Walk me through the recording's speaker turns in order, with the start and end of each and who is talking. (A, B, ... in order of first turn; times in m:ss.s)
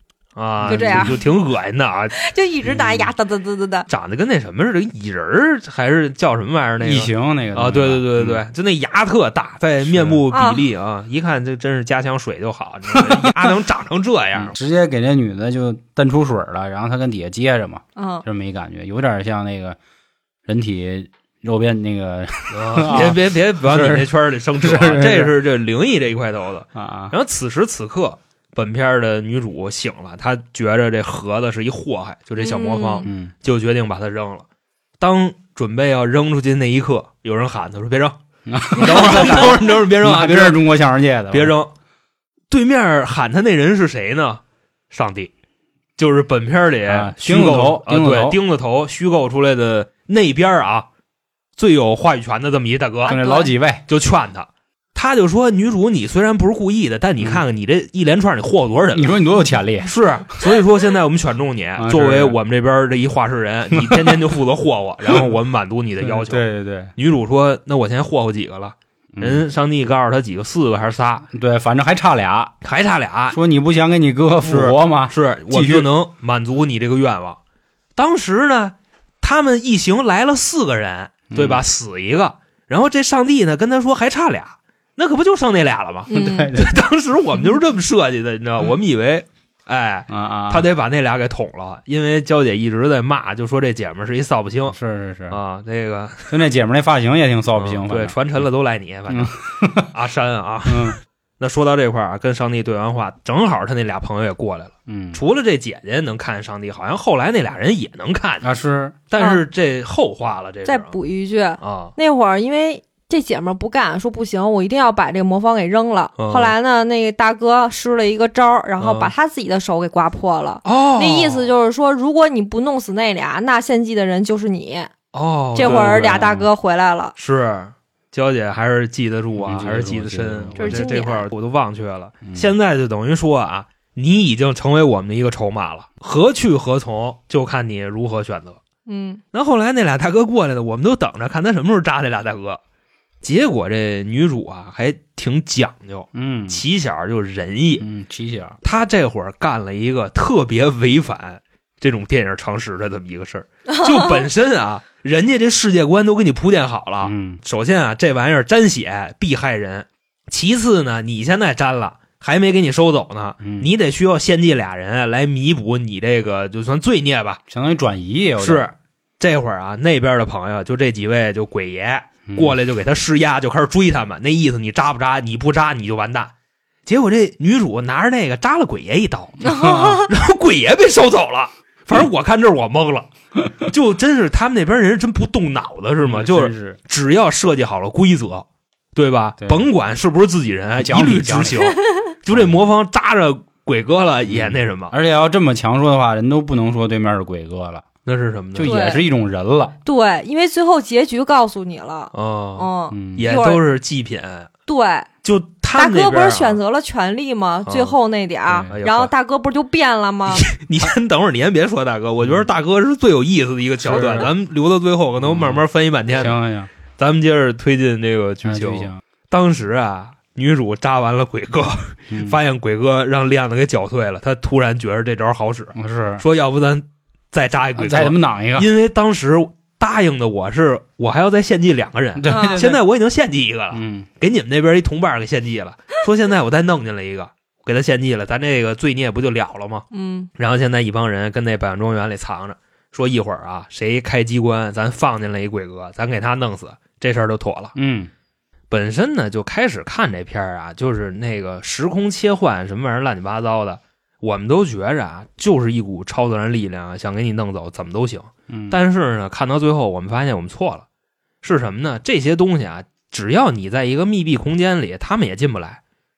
0:00.4-0:02.2 A
0:00.6-0:01.2 B
0:00.6-0:01.2 C
0:02.2-0:03.9 C
0:02.6-0:03.1 B
0:03.9-0:14.5 A
0:06.8-0:08.4 B
0:09.8-0:10.2 B
0:10.3-0:10.6 C
0:12.9-0:13.5 B
0:14.3-0:19.8 B
0:18.0-0:18.2 C
0:20.4-0:24.1 B
0:22.5-0:34.4 A
0:24.6-0:25.3 B
0:26.7-0:27.1 B
0:32.4-0:33.1 C
0:33.0-0:33.3 B
0:35.0-0:38.2 A
0:38.5-0:41.5 B
0:38.8-0:40.6 A
0:41.3-0:41.7 A
0:42.5-0:45.3 A
0:46.0-0:50.9 A
0:46.9-0:48.4 B
0:51.6-0:53.2 A
0:53.0-0:53.5 C
0:53.1-0:53.8 B
0:53.9-0:59.2 A
0:58.9-1:00.6 B
0:59.8-1:06.4 A
1:01.8-1:02.4 B
1:03.7-1:04.2 B
1:05.0-1:05.3 B
1:06.0-1:06.9 B
1:07.0-1:11.2 A
1:09.1-1:09.5 B
1:11.3-1:12.5 B
1:12.6-1:13.4 A
1:13.3-1:15.9 B
1:14.4-1:17.4 A
1:18.0-1:34.8 A
1:21.3-1:21.6 B
1:26.1-1:26.5 C
1:26.1-1:26.8 B
1:30.1-1:30.7 B
1:34.7-1:35.4 B
1:35.3-1:36.3 A
1:36.3-1:38.2 B
1:37.6-1:48.5 A
1:39.1-1:39.9 B
1:40.6-1:41.0 B
1:44.9-1:45.2 B
1:48.4-1:49.0 B
1:49.1-1:51.0 A
1:49.2-1:49.4 C
1:50.6-2:04.9 C
1:51.6-1:51.9 A
1:56.2-1:56.5 A
1:58.8-1:59.1 A
2:00.6-2:01.5 A
2:05.1-2:06.2 A
2:05.5-2:07.1 C
2:05.6-2:06.5 B
2:07.2-2:18.6 A
2:09.3-2:10.8 B
2:10.6-2:11.2 C
2:12.2-2:12.5 B
2:18.9-2:19.2 C
2:19.3-2:22.6 A
2:23.2-2:27.8 A
2:26.1-2:26.6 B
2:27.8-2:28.6 B
2:28.6-2:47.4 A
2:33.7-2:34.1 C
2:37.0-2:37.4 B
2:43.4-2:43.7 B
2:47.5-2:48.7 B
2:48.4-2:56.3 A
2:52.3-2:52.6 B
2:56.9-3:14.9 A
2:59.4-3:00.1 C
2:59.4-3:00.0 B
3:06.0-3:06.8 B
3:09.4-3:09.7 B
3:10.8-3:11.7 B
3:11.8-3:12.1 C
3:12.3-3:12.6 B
3:14.2-3:17.9 B
3:18.0-3:19.0 A
3:18.5-3:19.7 B
3:18.6-3:19.0 C
3:19.8-3:23.6 C
3:22.1-3:24.5 A
3:22.9-3:23.3 B
3:24.7-3:25.1 C
3:25.2-3:26.6 A
3:25.7-3:30.4 C
3:27.6-3:28.0 A
3:28.6-3:29.1 A
3:30.3-3:36.4 A
3:33.8-3:34.3 B
3:35.2-3:36.7 B
3:37.0-4:07.7 A
3:38.4-3:39.0 B
3:42.1-3:42.4 B
3:45.7-3:46.2 B
3:47.8-3:48.7 B
3:52.2-3:52.8 B
3:52.3-3:52.6 C
3:53.7-3:54.1 B
3:59.9-4:00.3 C
4:07.7-4:08.1 B
4:08.7-4:20.8 A
4:18.5-4:18.8 B
4:21.4-4:25.8 A